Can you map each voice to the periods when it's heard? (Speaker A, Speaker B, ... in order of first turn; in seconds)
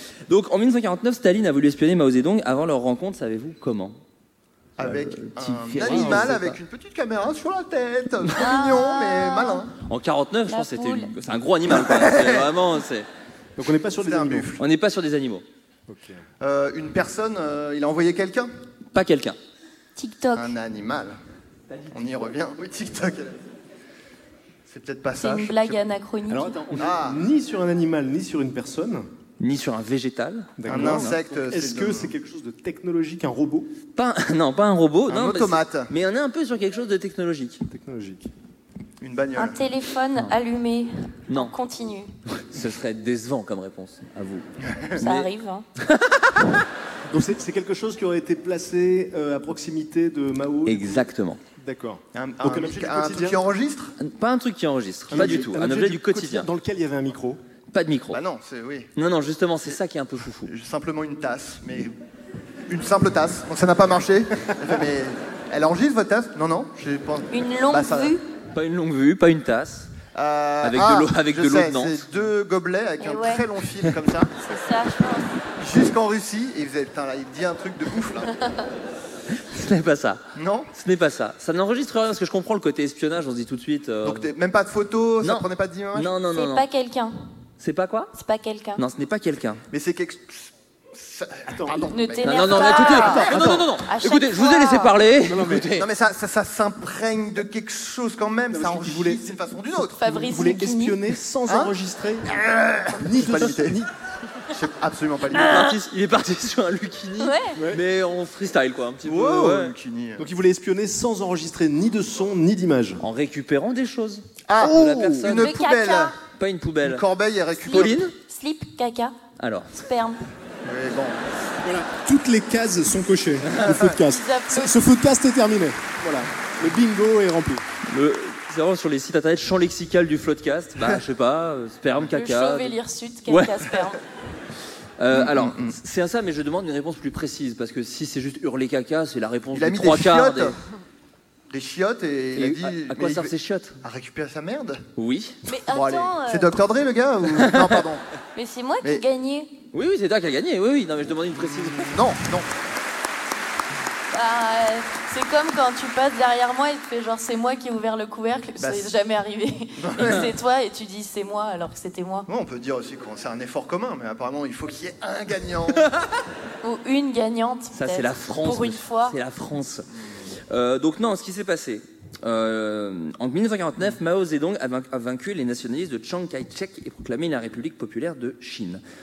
Speaker A: 0.3-4.0, 4.8-6.6, 9.9-13.1, 14.6-15.4, 18.9-19.4, 29.4-31.1, 33.9-37.6, 41.3-41.5, 42.4-45.3, 45.8-46.2, 50.6-51.4, 54.0-56.5, 57.7-58.2, 59.0-60.5, 68.5-69.9, 70.6-72.0, 79.3-80.2, 80.7-84.3, 85.2-86.7, 87.6-88.1, 88.8-89.6, 92.2-95.9, 105.3-109.7, 113.0-115.5, 116.4-117.0, 117.7-118.1, 119.4-119.7, 123.5-123.7, 127.9-133.6, 135.0-140.5, 142.3-143.8, 144.9-145.4, 147.3-147.8, 149.7-152.0, 167.7-169.9, 170.5-178.8
Speaker B: 4.8-9.7, 11.7-12.5, 14.0-14.6, 16.4-18.5, 20.3-21.1, 21.9-23.4, 24.7-25.8, 26.8-27.2, 30.7-32.1, 35.1-35.9, 39.0-39.6, 44.7-45.0, 52.1-53.9, 55.1-55.5, 58.1-58.9, 60.5-61.9, 62.7-68.2, 70.1-74.3, 75.6-78.3, 80.3-80.7, 84.0-86.1, 89.7-93.6, 95.7-100.2, 101.5-101.7, 102.3-103.8, 104.5-105.8, 109.0-110.3, 114.5-116.2, 116.8-118.1, 120.7-121.2, 123.4-124.0, 135.1-135.7, 139.5-140.5, 141.5-144.8, 145.7-148.0, 151.5-152.5, 158.6-158.9, 159.8-160.3, 162.3-165.9
Speaker C: 5.8-6.4, 13.6-14.5, 15.9-16.2, 26.3-29.1, 30.6-33.7, 37.7-38.3, 47.1-51.0, 51.6-53.4, 55.1-57.4, 91.5-91.9, 95.2-95.7, 98.5-99.3, 100.1-102.2, 103.0-103.9, 110.2-113.0, 121.6-127.6
Speaker D: 8.4-9.6, 10.5-11.1, 19.9-20.5, 25.2-26.6, 39.4-42.1, 45.0-45.6, 67.3-68.2, 73.0-73.4, 74.4-75.3, 86.3-87.2, 88.1-88.8, 91.9-94.9, 100.0-101.1, 107.2-107.6, 115.2-116.2, 117.7-119.2, 119.8-120.2, 124.1-124.9, 132.1-134.0, 145.5-146.6, 148.3-149.6, 154.1-162.3, 166.6-169.2